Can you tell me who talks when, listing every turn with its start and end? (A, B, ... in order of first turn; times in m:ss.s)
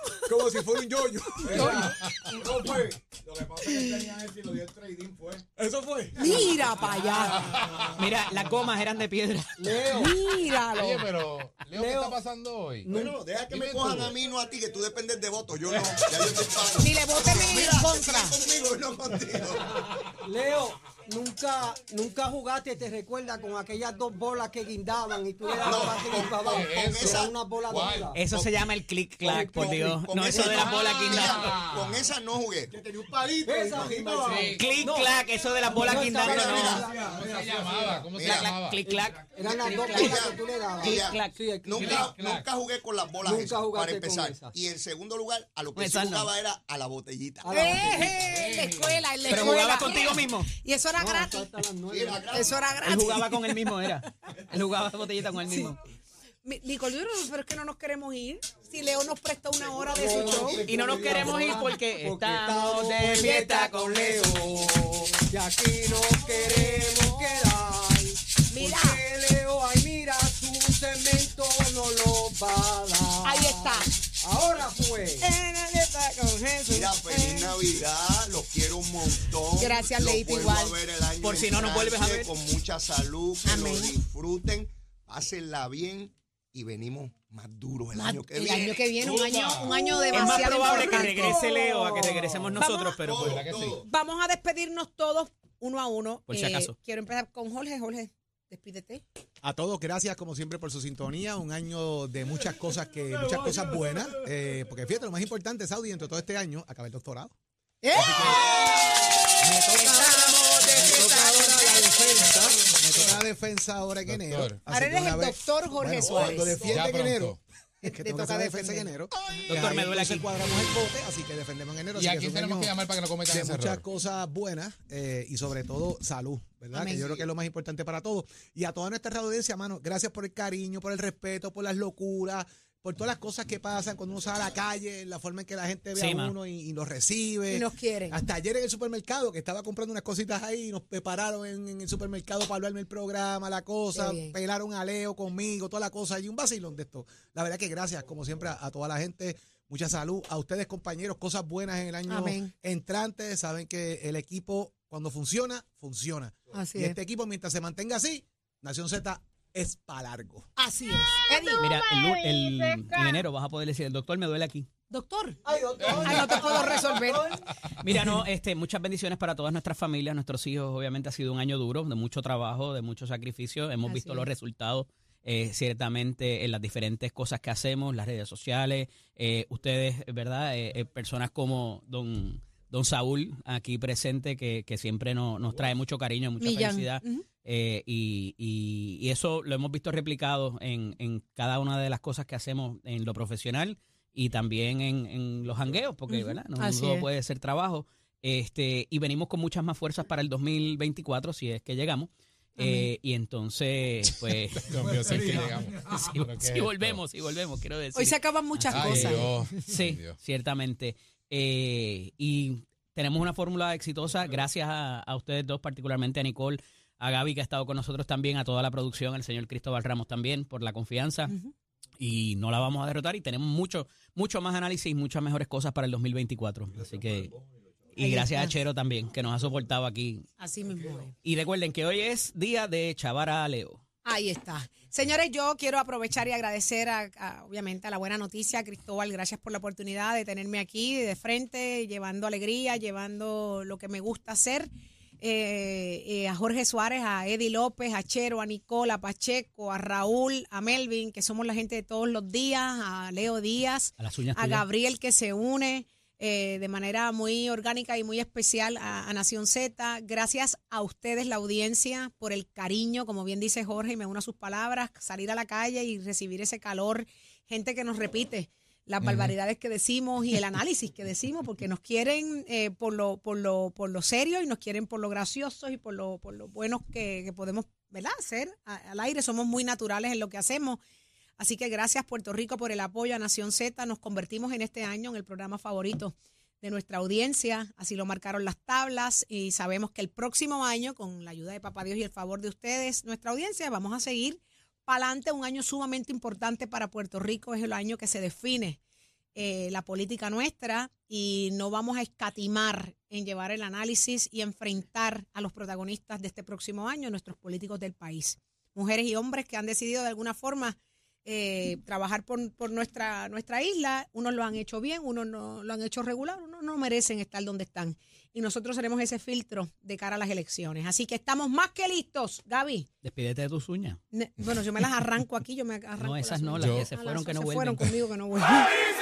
0:00.2-0:01.9 A
0:01.4-0:05.5 B
0:01.5-0:02.0 C
0:02.0-0:02.3 D
0:05.6-0:06.9 A
0:06.2-0:07.5 C
0:06.2-0:08.2 B
0:07.4-0:08.0 D
0:08.0-0:09.9 E
0:09.6-0:10.2 F
0:09.9-0:11.1 C
0:10.7-0:12.9 D
0:11.7-0:12.2 F
0:12.8-0:13.2 F
0:12.9-0:19.8 G
0:13.5-0:14.1 D
0:16.8-0:18.4 C
0:20.2-0:28.2 F
0:25.6-0:28.6 G
0:26.4-0:28.1 D
0:28.1-0:31.5 E
0:29.2-0:29.8 F
0:29.2-0:32.8 G
0:30.3-0:32.1 D
0:32.7-0:34.6 B
0:33.4-0:37.1 F
0:34.2-0:34.8 D
0:34.6-0:36.8 E
0:35.7-0:38.2 B
0:36.0-0:36.9 G
0:37.0-0:40.0 D
0:38.1-0:38.6 G
0:38.2-0:40.3 E
0:38.8-0:42.1 F
0:39.6-0:47.8 G
0:40.8-0:41.4 E
0:41.7-0:42.5 D
0:43.2-0:44.5 F
0:45.7-0:46.3 E
0:47.4-0:48.2 F
0:47.5-0:51.5 C
0:48.2-0:49.6 D
0:49.2-0:50.5 E
0:50.9-0:52.5 F
0:51.9-0:52.7 G
0:52.3-0:53.8 C
0:52.8-0:55.8 E
0:55.5-0:55.7 C
0:56.4-1:00.6 C
0:59.7-1:01.1 G
0:59.9-1:15.4 F
1:00.6-1:04.6 E
1:00.8-1:01.2 B
1:03.2-1:03.8 C
1:06.4-1:07.2 C
1:08.5-1:09.0 C
1:13.2-1:13.9 C
1:15.2-1:17.5 C
1:16.7-1:29.2 G
1:19.6-1:20.8 C
1:21.2-1:22.3 E
1:23.4-1:24.0 C
1:27.9-1:33.0 C
1:28.9-1:30.0 D
1:30.1-1:33.4 E
1:30.2-1:32.5 F
1:33.0-1:33.9 G
1:33.1-1:33.8 D
1:33.8-1:39.0 C
1:36.3-1:36.7 E
1:39.4-1:47.3 A
1:43.1-1:44.2 B
1:47.8-1:48.7 C
1:47.9-1:48.6 A
1:49.4-2:02.7 A
1:49.7-1:51.9 C
1:52.1-1:53.1 B
1:54.0-1:54.6 D
1:54.7-1:56.7 C
1:56.1-1:56.5 G
1:56.7-1:57.4 D
1:57.8-1:59.4 C
1:59.5-2:00.7 E
2:01.9-2:03.8 D
2:03.3-2:40.5 A
2:06.7-2:07.3 C
2:15.9-2:16.3 E
2:17.5-2:18.2 C
2:23.9-2:24.3 C
2:32.1-2:32.5 C
2:36.5-2:37.0 C
2:40.6-2:43.2 C
2:41.6-2:44.7 E
2:44.9-2:47.2 C
2:45.4-2:47.5 F
2:45.8-2:46.5 D
2:47.8-3:41.3 E
2:53.8-2:54.3 C
3:06.4-3:07.2 C
3:16.1-3:17.1 C
3:22.6-3:22.9 C
3:24.6-3:27.0 D
3:24.7-3:26.2 B
3:27.9-3:29.3 C
3:28.7-3:30.2 D
3:42.0-3:47.3 E
3:47.9-3:50.3 E
3:48.0-3:48.5 C
3:50.4-3:51.1 C
3:51.2-3:53.8 E
3:54.0-4:40.8 C
4:14.0-4:14.6 E
4:29.0-4:29.3 E
4:41.4-4:58.8 C
4:59.3-5:22.9 C
5:23.0-5:24.0 E
5:24.1-5:28.7 C
5:26.0-5:28.0 E
5:26.6-5:26.9 D